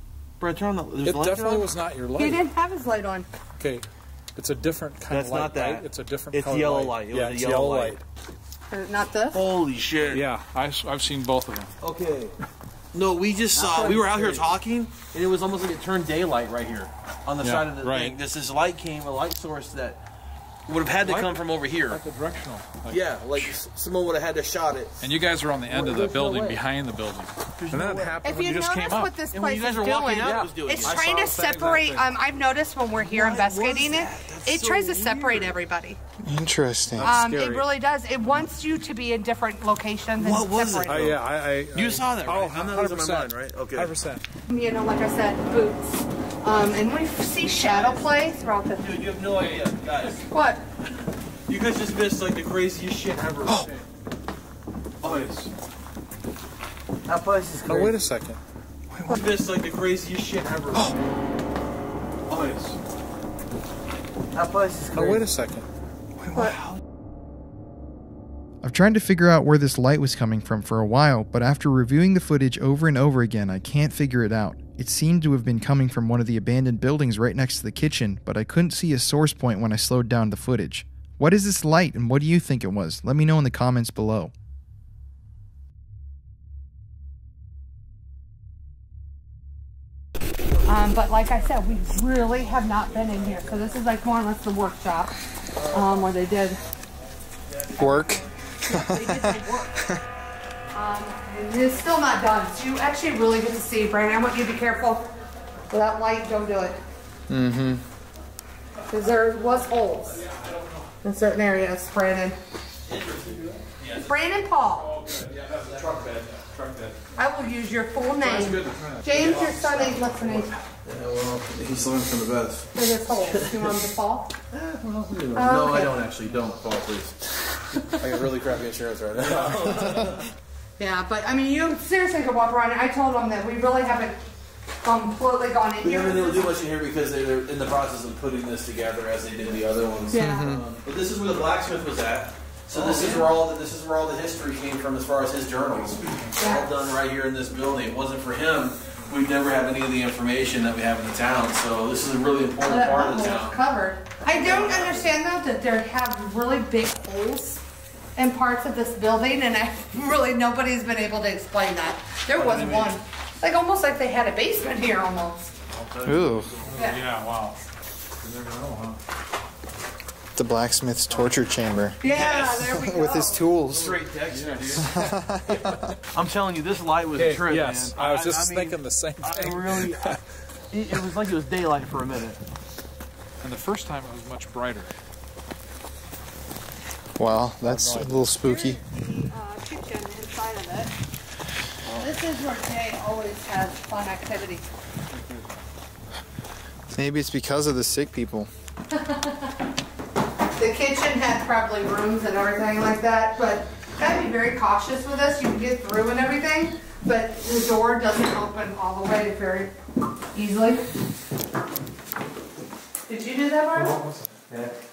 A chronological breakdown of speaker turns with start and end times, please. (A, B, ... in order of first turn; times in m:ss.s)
0:00.4-0:01.7 A
0:01.0-0:02.4 B
0:02.2-0:03.3 C
0:03.6-0:08.0 B
0:05.1-0:08.0 A
0:08.7-0:09.4 C
0:09.3-0:10.2 A
0:10.0-0:11.7 B
0:11.8-0:12.3 A
0:12.9-0:20.0 A
0:13.6-0:14.5 D
0:17.4-0:18.2 B
0:20.7-0:22.0 A
0:21.0-0:23.0 B
0:22.9-0:25.0 A
0:25.0-0:29.1 B
0:25.8-0:26.5 D
0:25.8-0:26.5 A
0:27.6-0:28.2 A
0:28.2-0:36.0 C
0:29.3-0:31.6 A
0:30.2-0:32.1 B
0:33.0-0:35.6 A
0:36.2-0:37.1 E
0:37.0-0:37.6 A
0:37.0-0:41.2 C
0:37.1-0:37.6 B
0:40.2-0:43.9 A
0:40.9-0:44.2 B
0:44.5-0:49.0 C
0:47.6-0:48.3 A
0:48.8-0:50.3 A
0:50.3-0:50.6 C
0:51.5-0:53.7 A
0:53.5-0:53.8 B
0:55.0-0:55.4 A
0:55.0-0:55.5 B
0:57.1-0:57.6 D
0:57.4-0:57.9 A
0:57.7-0:58.4 B
0:58.9-0:59.2 E
0:59.1-1:01.0 A
1:02.3-1:02.7 A
1:02.3-1:02.7 B
1:04.3-1:05.3 D
1:04.9-1:05.7 B
1:06.2-1:06.5 E
1:08.6-1:24.3 E
1:30.7-1:35.1 C
1:35.6-1:36.0 A
1:35.7-1:36.6 C
1:37.5-1:38.1 A
1:37.8-1:40.0 E
1:38.6-1:39.8 C
1:40.7-1:45.1 C
1:45.7-1:46.8 C
1:47.3-1:47.8 E
1:48.9-1:50.2 C
1:50.0-1:50.9 B
1:51.0-1:52.4 C
1:52.9-1:53.7 B
1:53.8-1:54.2 A
1:54.0-1:54.9 C
1:54.7-1:57.2 B
1:55.7-1:56.0 A
1:57.2-2:00.5 C
1:58.2-2:00.6 B
1:59.1-1:59.8 A
2:00.4-2:03.7 A
2:02.8-2:04.3 C
2:04.5-2:07.2 A
2:05.3-2:06.0 C
2:07.8-2:10.3 A
2:09.3-2:10.2 B
2:10.8-2:14.2 C
2:14.8-2:16.5 C
2:15.8-2:33.6 A
2:20.1-2:20.6 C
2:20.1-2:20.6 E
2:22.7-2:23.3 B
2:25.9-2:26.4 B
2:26.4-2:26.7 C
2:32.6-2:37.6 C
2:34.3-2:35.1 A
2:38.2-2:45.5 C
2:42.3-2:43.0 A
2:45.7-2:46.8 A
2:46.0-2:46.5 E
2:46.6-2:47.6 B
2:46.8-2:47.0 C
2:48.2-2:49.0 B
2:50.4-2:52.0 E
2:52.0-2:52.7 A
2:52.0-2:53.5 C
2:52.6-2:54.0 E
2:53.7-2:55.0 A
2:54.3-2:55.8 B
2:54.8-2:55.9 E
2:56.1-3:00.2 A
2:57.2-3:00.2 B
3:00.7-3:02.4 A
3:03.4-3:04.9 B
3:07.2-3:08.8 E
3:08.0-3:10.9 C
3:11.9-3:14.7 C
3:15.1-3:15.4 D
3:16.9-3:18.5 E
3:18.9-3:19.5 C
3:20.6-3:29.8 C
3:30.3-3:30.8 C
3:33.1-3:34.0 C
3:33.7-3:34.4 B